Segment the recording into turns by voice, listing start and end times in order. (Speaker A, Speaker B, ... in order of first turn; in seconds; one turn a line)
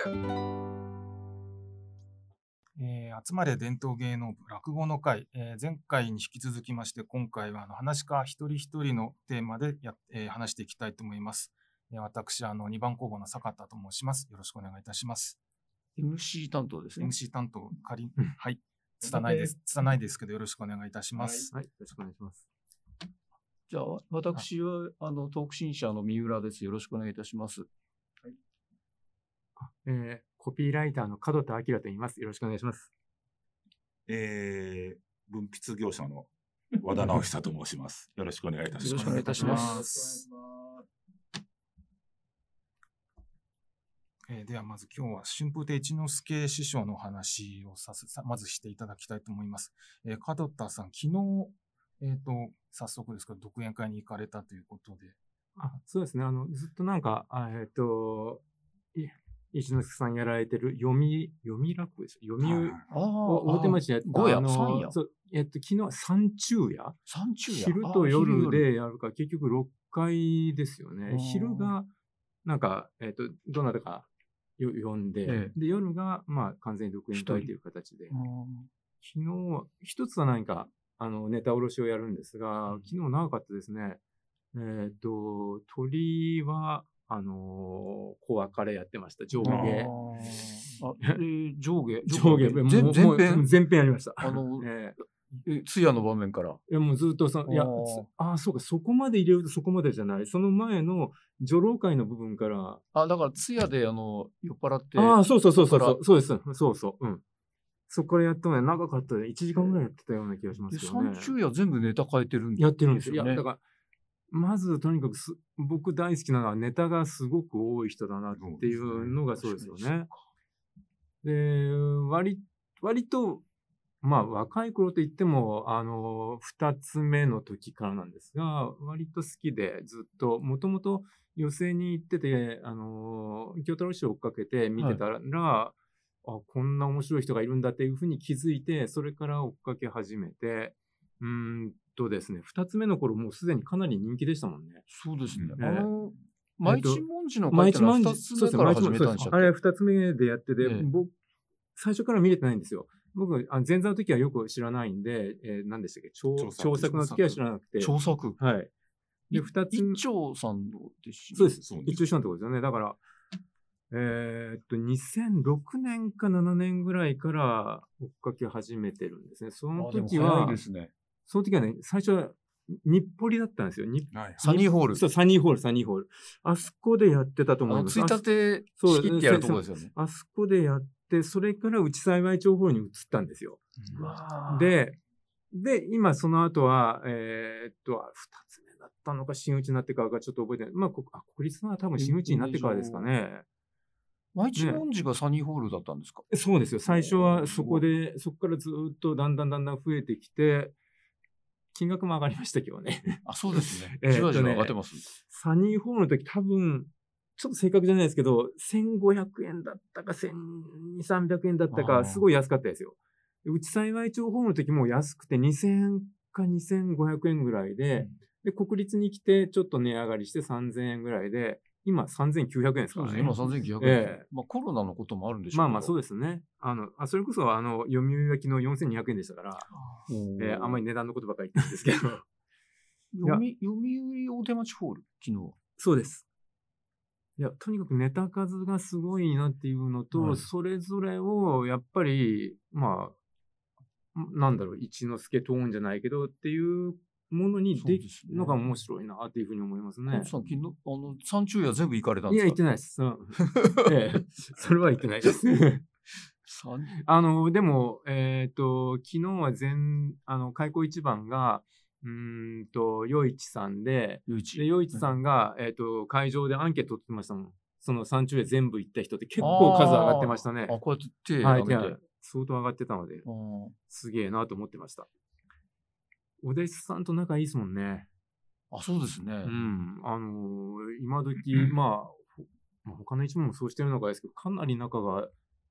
Speaker A: 2.8-15.4
Speaker B: 16.0-17.2
Speaker A: 17.0-21.5
Speaker C: 19.1-19.5
Speaker D: 21.5-22.5
Speaker B: 23.7-27.7
Speaker D: 29.6-32.9
Speaker C: 34.1-40.0
Speaker B: 38.8-40.0
Speaker A: 39.3-39.7
Speaker A: 44.3-55.2
Speaker D: 55.6-58.4
Speaker D: 58.9-67.0
Speaker C: 62.4-63.0
Speaker B: 62.9-65.0
Speaker B: 67.1-68.7
Speaker D: 67.5-71.9
Speaker B: 71.1-71.7
Speaker D: 72.5-74.1
Speaker D: 74.6-78.2
Speaker B: 75.3-75.5
Speaker B: 77.1-77.5
Speaker B: 78.1-78.7
Speaker D: 79.0-84.0
Speaker D: 84.5-89.9
Speaker B: 89.3-93.5
Speaker C: 89.4-89.9
Speaker D: 92.1-95.0
Speaker B: 94.2-94.7
Speaker B: 95.3-96.6
Speaker D: 96.7-102.8
Speaker B: 97.5-98.1
Speaker B: 102.9-106.0
Speaker D: 105.0-107.2
Speaker D: 107.9-111.3
Speaker B: 109.5-109.8
Speaker B: 110.7-113.4
Speaker D: 112.6-113.6
Speaker D: 114.3-120.1
Speaker C: 118.3-119.2
Speaker B: 119.3-120.2
Speaker D: 121.2-123.4
Speaker D: 124.0-144.8
Speaker B: 144.9-149.5
Speaker C: 145.3-145.6
Speaker D: 145.6-145.9
Speaker D: 146.7-151.1
Speaker B: 150.6-150.9
Speaker D: 151.8-158.7
Speaker C: 156.4-157.4
Speaker B: 157.8-158.4
Speaker B: 159.3-161.5
Speaker D: 159.3-160.0
Speaker D: 161.3-163.0
Speaker C: 161.6-162.1
Speaker D: 163.9-170.6
Speaker B: 169.8-170.9
Speaker D: 171.3-185.0
Speaker C: 174.1-174.5
Speaker B: 174.4-175.0
Speaker B: 177.7-179.9
Speaker B: 183.9-184.8
Speaker D: 185.5-193.4
Speaker B: 192.0-193.1
Speaker B: 194.3-196.3
Speaker D: 194.6-194.8
Speaker D: 196.3-200.8
Speaker B: 196.9-197.8
Speaker D: 201.7-224.3
Speaker B: 203.2-205.1
Speaker B: 211.7-212.2
Speaker B: 222.9-225.9
Speaker D: 225.5-229.7
Speaker B: 230.1-230.8
Speaker D: 230.4-232.2
Speaker B: 233.1-235.6
Speaker D: 235.8-236.2
Speaker D: 237.4-243.2
Speaker B: 240.1-240.4
Speaker D: 244.1-250.3
Speaker B: 247.8-248.6
Speaker B: 250.1-252.6
Speaker D: 252.3-255.8
Speaker B: 253.4-253.9
Speaker B: 256.4-257.0
Speaker D: 257.0-270.8
Speaker B: 264.3-265.1
Speaker B: 269.4-272.0
Speaker D: 271.4-273.3
Speaker B: 273.2-273.8
Speaker D: 273.9-275.1
Speaker D: 276.4-278.1
Speaker B: 278.7-279.6
Speaker D: 279.4-285.3